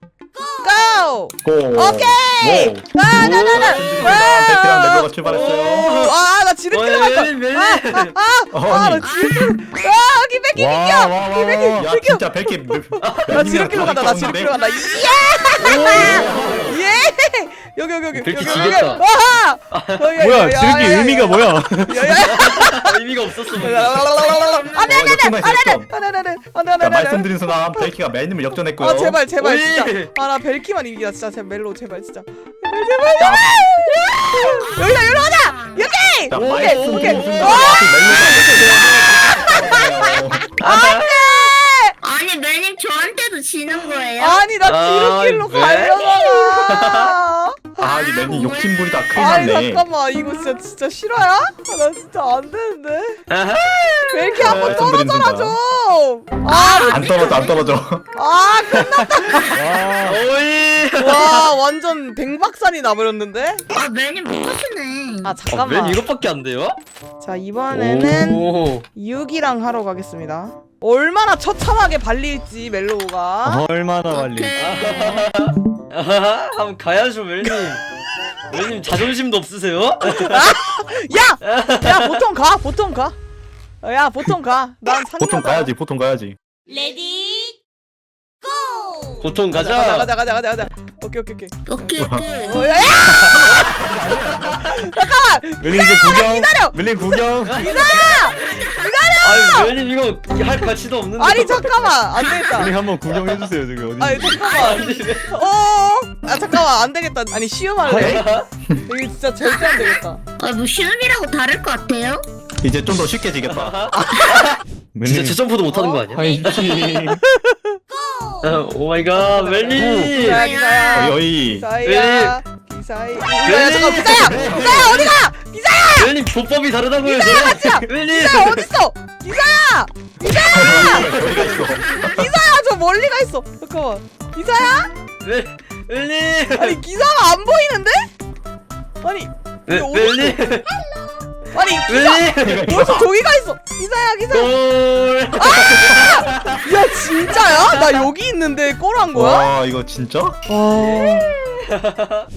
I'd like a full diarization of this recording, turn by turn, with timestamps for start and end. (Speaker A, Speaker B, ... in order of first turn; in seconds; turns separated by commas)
Speaker A: 0.4-1.1, Speaker B: 0.6-23.0, Speaker C: 1.4-5.9, Speaker D: 3.1-4.3, Speaker D: 5.2-8.1, Speaker C: 8.5-9.1, Speaker A: 9.0-9.6, Speaker E: 10.6-11.7, Speaker C: 11.7-14.6, Speaker D: 13.0-13.5, Speaker A: 14.4-16.0, Speaker D: 15.6-16.8, Speaker E: 16.0-16.7, Speaker D: 18.1-19.0, Speaker D: 19.7-20.1, Speaker E: 20.2-22.1, Speaker D: 22.2-24.1, Speaker B: 23.6-27.9, Speaker A: 24.2-25.0, Speaker C: 24.8-25.9, Speaker C: 26.8-29.2, Speaker B: 28.8-41.9, Speaker D: 29.4-30.1, Speaker C: 33.2-33.6, Speaker A: 34.6-35.9, Speaker C: 36.3-40.4, Speaker D: 36.3-39.4, Speaker D: 40.6-41.2, Speaker A: 42.0-44.4, Speaker B: 44.1-47.8, Speaker D: 44.6-46.0, Speaker D: 46.6-47.1, Speaker C: 47.8-49.9, Speaker A: 47.8-49.0, Speaker B: 49.1-53.2, Speaker D: 53.3-54.9, Speaker B: 54.1-57.2, Speaker C: 54.4-55.6, Speaker A: 56.5-57.6, Speaker C: 56.9-58.0, Speaker B: 58.1-59.7, Speaker E: 59.5-60.2, Speaker D: 60.0-61.5, Speaker B: 61.0-63.6, Speaker A: 63.7-65.4, Speaker B: 65.2-66.0, Speaker D: 65.5-66.8, Speaker B: 67.2-73.6, Speaker D: 67.7-68.9, Speaker E: 73.4-74.6, Speaker A: 74.1-75.3, Speaker D: 74.6-77.8, Speaker D: 78.5-80.6, Speaker B: 80.0-83.2, Speaker D: 81.4-82.2, Speaker B: 83.8-85.7, Speaker C: 85.2-86.4, Speaker A: 86.7-87.5, Speaker A: 88.7-89.2, Speaker D: 89.2-90.1, Speaker B: 89.5-99.7, Speaker A: 91.7-93.2, Speaker C: 92.0-92.3, Speaker D: 92.9-93.6, Speaker E: 93.3-94.4, Speaker E: 95.6-97.6, Speaker D: 97.5-98.7, Speaker D: 99.2-102.0, Speaker B: 101.2-102.8, Speaker A: 102.2-102.6, Speaker E: 102.6-104.4, Speaker D: 103.1-103.5, Speaker B: 104.0-108.3, Speaker D: 104.2-105.3, Speaker E: 107.9-108.2, Speaker D: 107.9-108.5, Speaker B: 108.9-110.2, Speaker A: 109.4-112.3, Speaker C: 112.6-113.8, Speaker D: 113.5-116.9, Speaker B: 113.9-114.3, Speaker E: 115.0-115.4, Speaker B: 115.7-116.1, Speaker E: 116.1-117.2, Speaker B: 117.2-117.8, Speaker A: 117.9-118.5, Speaker D: 118.4-120.5, Speaker B: 119.3-126.1, Speaker E: 119.8-120.1, Speaker A: 120.2-121.1, Speaker C: 120.9-121.7, Speaker D: 121.8-122.4, Speaker D: 123.4-125.2, Speaker C: 124.1-125.0, Speaker E: 124.4-124.7, Speaker D: 126.0-128.7, Speaker B: 127.0-134.9, Speaker C: 130.5-131.9, Speaker D: 130.6-131.6, Speaker A: 131.6-132.2, Speaker D: 135.2-136.8, Speaker B: 136.5-138.1, Speaker B: 139.0-140.4, Speaker D: 139.7-140.8, Speaker A: 140.8-141.1, Speaker B: 141.5-144.6, Speaker D: 141.9-142.7, Speaker C: 142.4-143.1, Speaker D: 144.3-146.7, Speaker B: 145.4-149.5, Speaker C: 149.1-150.4, Speaker B: 150.5-151.6, Speaker D: 150.7-152.3